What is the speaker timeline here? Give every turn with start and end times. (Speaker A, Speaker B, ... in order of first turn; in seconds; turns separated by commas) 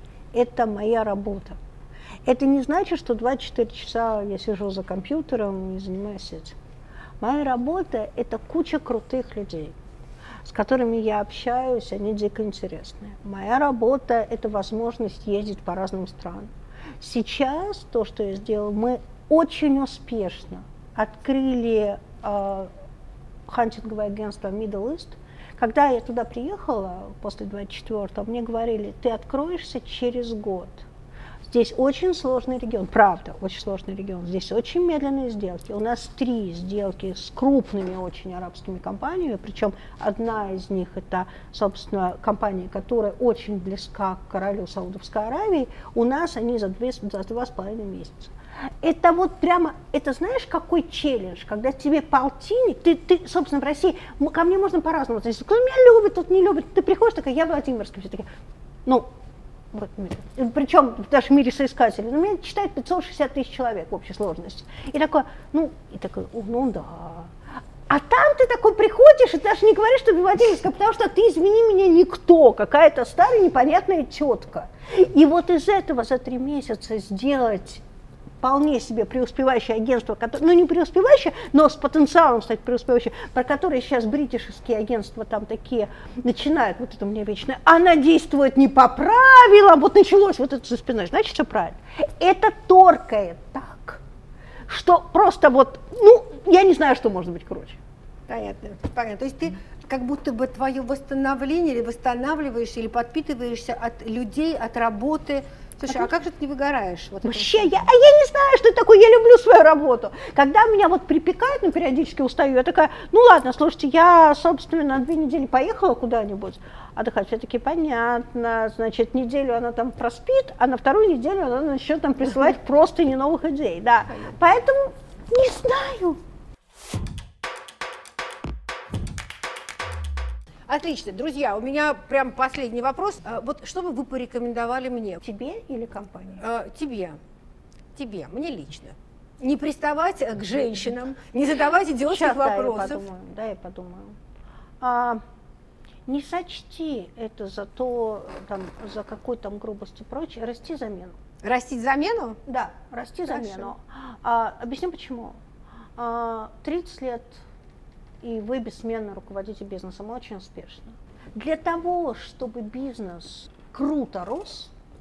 Speaker A: 0.3-1.6, Speaker A: 2.2-6.5, Speaker A: 7.2-9.7, Speaker A: 10.4-22.7, Speaker A: 23.5-30.9, Speaker A: 31.5-58.2, Speaker A: 59.7-67.3, Speaker A: 67.9-77.8, Speaker A: 78.4-94.0, Speaker A: 94.7-97.8, Speaker B: 98.3-107.8, Speaker A: 107.2-126.2, Speaker B: 130.7-135.2, Speaker A: 135.2-136.4, Speaker B: 136.4-137.2, Speaker B: 137.9-143.0, Speaker A: 142.1-144.2, Speaker A: 144.8-145.2, Speaker A: 146.1-151.2, Speaker B: 151.4-152.4, Speaker A: 152.4-155.4, Speaker B: 153.4-153.7, Speaker A: 156.0-157.4, Speaker A: 158.2-164.7